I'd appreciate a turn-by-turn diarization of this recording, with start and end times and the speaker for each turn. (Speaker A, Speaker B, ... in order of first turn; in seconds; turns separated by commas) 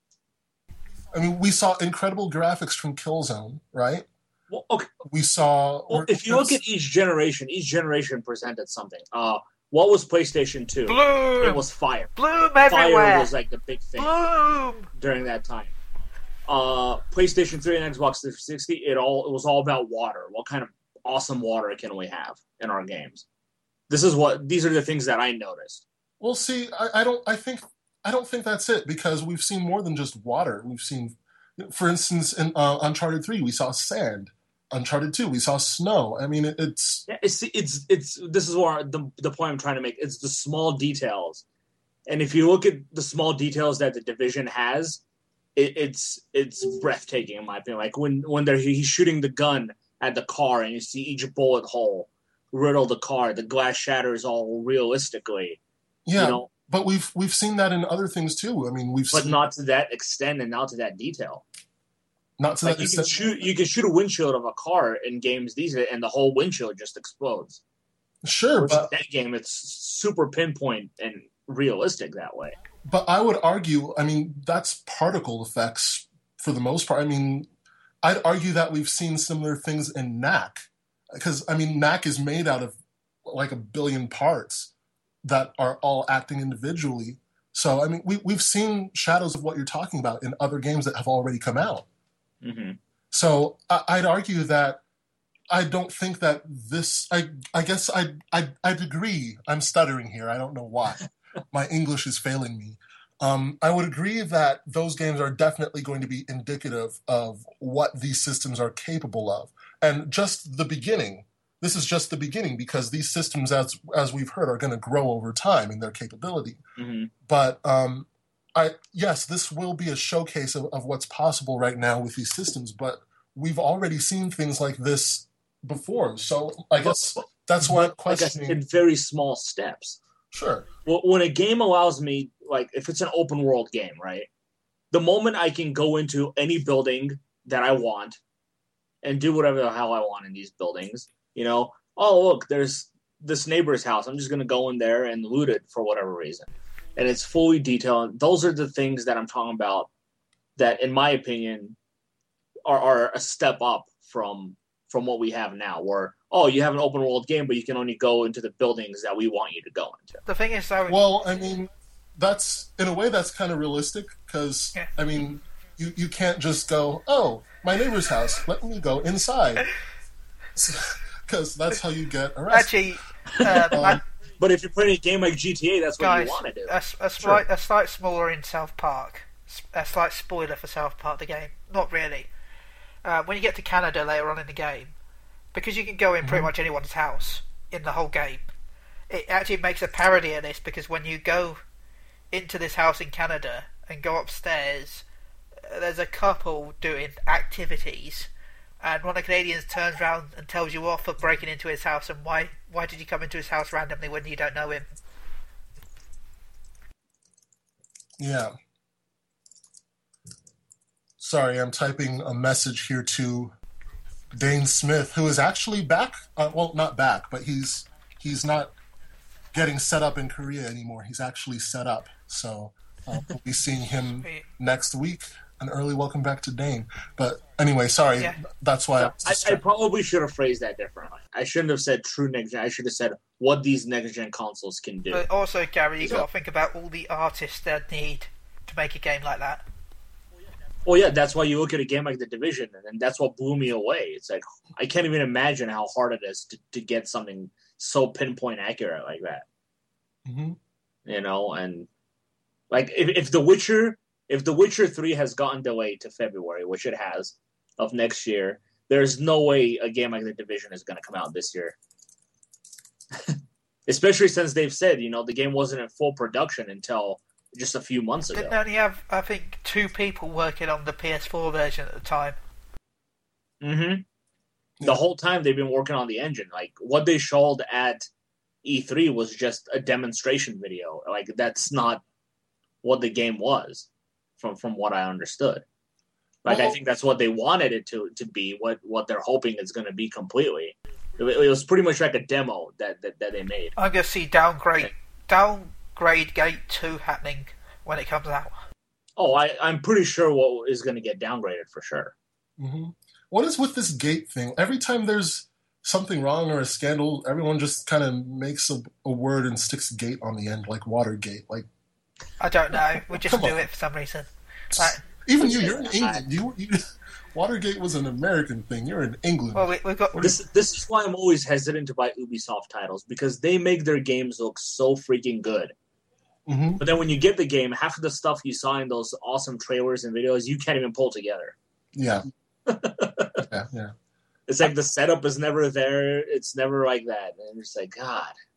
Speaker A: 1.1-4.0, Speaker B: 4.5-4.9, Speaker A: 5.0-6.6, Speaker B: 5.9-12.1, Speaker C: 10.9-11.6, Speaker C: 12.2-13.3, Speaker B: 12.7-14.1, Speaker C: 14.0-14.9, Speaker B: 14.9-15.7, Speaker B: 16.5-23.2, Speaker B: 23.9-25.8, Speaker A: 26.2-37.0, Speaker B: 37.1-41.4, Speaker B: 42.1-45.0, Speaker B: 45.5-55.6, Speaker A: 56.0-59.4, Speaker B: 56.1-56.5, Speaker B: 59.1-61.4, Speaker A: 62.4-63.5, Speaker B: 62.6-67.6, Speaker A: 68.2-68.9, Speaker B: 68.6-72.5, Speaker A: 72.8-77.5, Speaker A: 78.0-84.7, Speaker A: 85.2-91.8, Speaker B: 92.4-92.8, Speaker A: 93.1-94.8, Speaker A: 95.5-116.6, Speaker B: 116.8-117.1, Speaker A: 117.2-128.6, Speaker B: 127.7-130.0, Speaker A: 130.3-130.7, Speaker B: 130.8-134.3, Speaker B: 134.9-138.2, Speaker B: 139.0-149.9, Speaker B: 150.6-151.8, Speaker B: 152.6-160.2, Speaker C: 160.3-161.1, Speaker A: 160.9-169.7, Speaker A: 170.6-172.7, Speaker C: 172.5-174.0, Speaker A: 173.6-174.0, Speaker B: 174.4-176.8, Speaker C: 176.0-182.3, Speaker C: 183.0-184.9, Speaker C: 185.5-188.4, Speaker A: 186.2-186.5, Speaker C: 189.1-191.6, Speaker C: 192.3-195.1, Speaker C: 195.6-198.3, Speaker C: 198.8-204.9, Speaker A: 208.2-208.5, Speaker A: 211.2-213.6, Speaker A: 214.3-218.7, Speaker A: 219.5-229.6, Speaker C: 224.2-224.4, Speaker B: 229.0-235.2, Speaker C: 235.1-239.6, Speaker B: 240.8-249.4, Speaker A: 250.3-250.6, Speaker B: 251.1-251.9, Speaker B: 252.7-261.8, Speaker B: 263.1-268.6, Speaker C: 268.4-272.4, Speaker B: 273.6-274.1, Speaker B: 274.8-278.1, Speaker B: 278.6-282.0, Speaker B: 282.8-283.9, Speaker B: 284.4-285.6, Speaker B: 286.4-293.7, Speaker A: 286.4-286.8, Speaker C: 293.8-298.6, Speaker B: 299.2-302.1, Speaker A: 302.6-311.7, Speaker C: 312.4-315.0, Speaker A: 313.1-313.6, Speaker A: 314.7-316.8, Speaker B: 315.4-316.2, Speaker A: 317.3-320.3, Speaker C: 319.6-320.3, Speaker B: 320.2-325.7, Speaker A: 326.5-326.8, Speaker B: 326.8-331.6, Speaker A: 331.9-332.3, Speaker B: 332.6-333.4, Speaker A: 333.5-333.9, Speaker B: 334.5-338.4